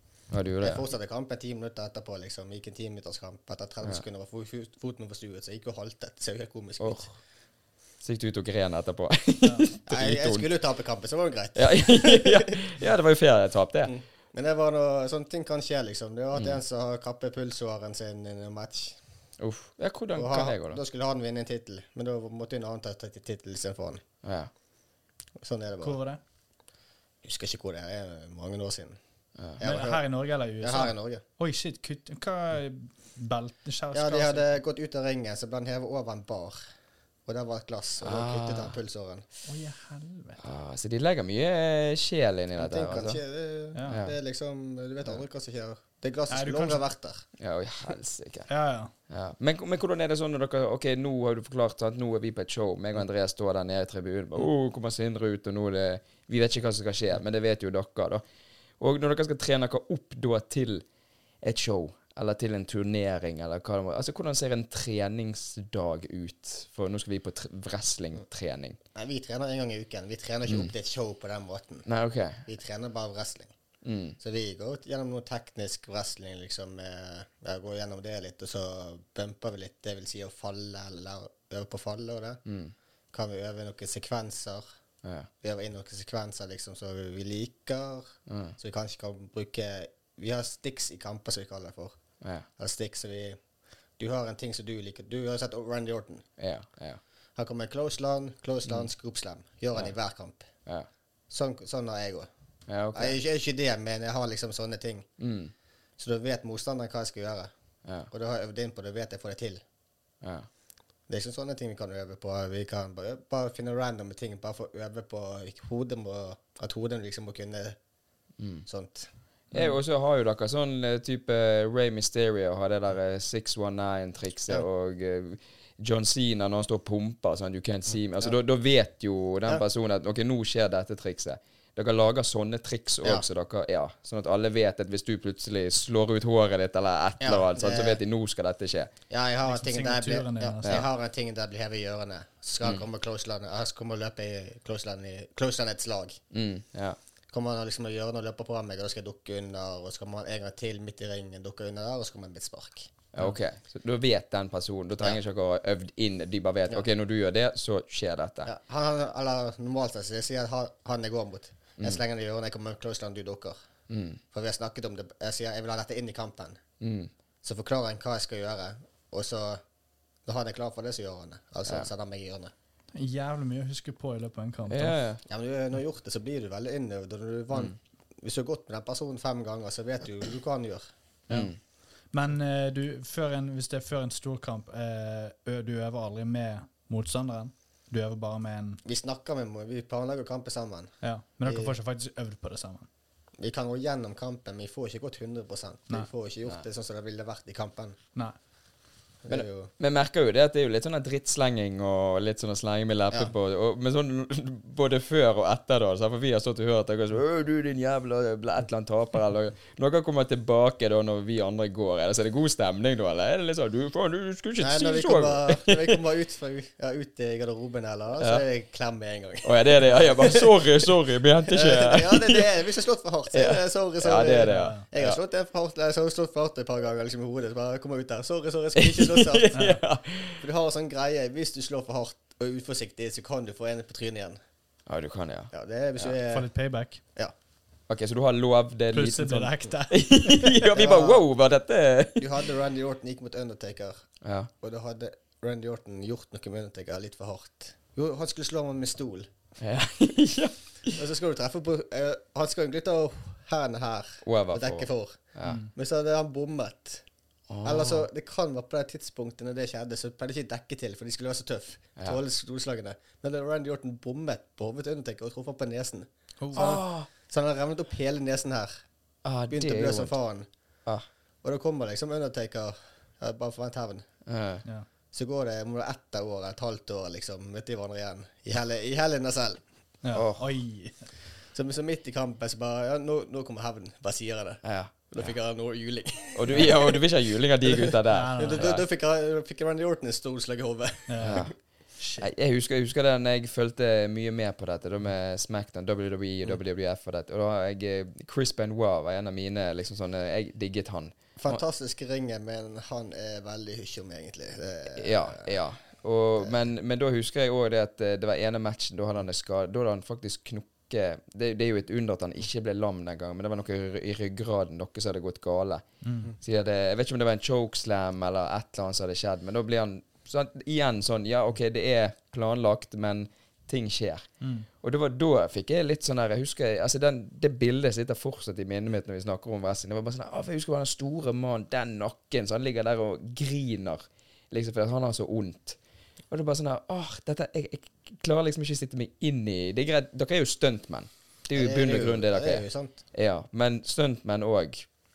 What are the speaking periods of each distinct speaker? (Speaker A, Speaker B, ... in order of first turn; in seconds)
Speaker A: 0.3-0.8, 6.8-7.1, 8.0-10.5, 11.6-13.9, 19.4-20.8, 24.2-24.5, 38.0-38.8, 40.4-43.2, 43.9-44.1, 47.4-48.5, 49.1-58.2, 58.8-60.8, 61.4-68.8, 70.5-70.7, 71.8-72.4, 73.8-74.2, 82.5-82.7, 85.0-85.3, 88.3-88.5, 92.2-92.5, 96.4-97.0, 102.7-103.2, 105.2-105.5, 110.2-110.5, 118.4-118.7, 119.5-138.9, 146.3-147.0, 153.1-158.5, 163.9-164.2, 166.8-167.1, 174.7-175.2, 181.3-181.6, 199.3-216.0, 219.4-222.5, 223.3-225.2, 228.8-230.4, 234.9-235.5, 237.9-242.4, 244.2-244.5, 249.6-251.0, 254.2-255.6, 257.5-258.1, 266.5-267.1, 269.2-270.1, 274.2-274.6, 280.1-280.5, 284.6-285.3, 286.3-288.8, 291.2-291.5, 292.2-301.6, 304.9-315.8, 316.4-324.3, 324.8-335.8, 336.3-344.9
Speaker B: 0.6-7.1, 9.9-12.6, 13.8-19.0, 20.1-24.0, 25.4-26.0, 27.2-29.0, 29.6-30.0, 30.6-31.2, 33.9-36.6, 37.3-39.2, 42.6-47.2, 68.9-71.9, 72.4-73.5, 74.2-82.4, 83.1-84.6, 85.4-92.0, 92.6-93.4, 94.0-96.2, 97.3-100.5, 101.3-102.3, 102.9-105.1, 106.0-107.5, 108.1-109.6, 111.1-117.8, 118.7-119.1, 137.2-138.0, 139.1-146.2, 147.3-152.9, 158.4-163.5, 164.3-166.6, 167.4-169.6, 170.2-172.5, 175.3-180.9, 188.8-190.9, 191.4-191.7, 193.4-198.0, 199.2-199.7, 214.6-220.6, 221.5-229.7, 230.4-234.4, 235.5-236.5, 240.7-241.3, 242.2-244.0, 244.6-249.3, 250.9-257.0, 257.6-268.7, 269.5-270.5, 271.4-274.1, 275.1-279.6, 281.5-287.0, 287.6-291.5, 301.4-305.5, 341.5-343.0
Speaker C: 9.4-9.7, 25.8-26.2, 29.6-34.6, 39.5-40.4, 43.7-44.0, 46.3-46.8, 48.5-48.9, 139.5-140.8, 172.9-175.0, 182.1-188.8, 191.0-192.9, 224.4-224.8, 229.5-229.8, 236.2-237.0, 238.9-240.6, 255.4-255.7, 266.4-266.8, 280.0-281.1, 288.1-288.7, 291.1-291.5, 292.0-292.3, 316.0-316.3, 324.4-324.7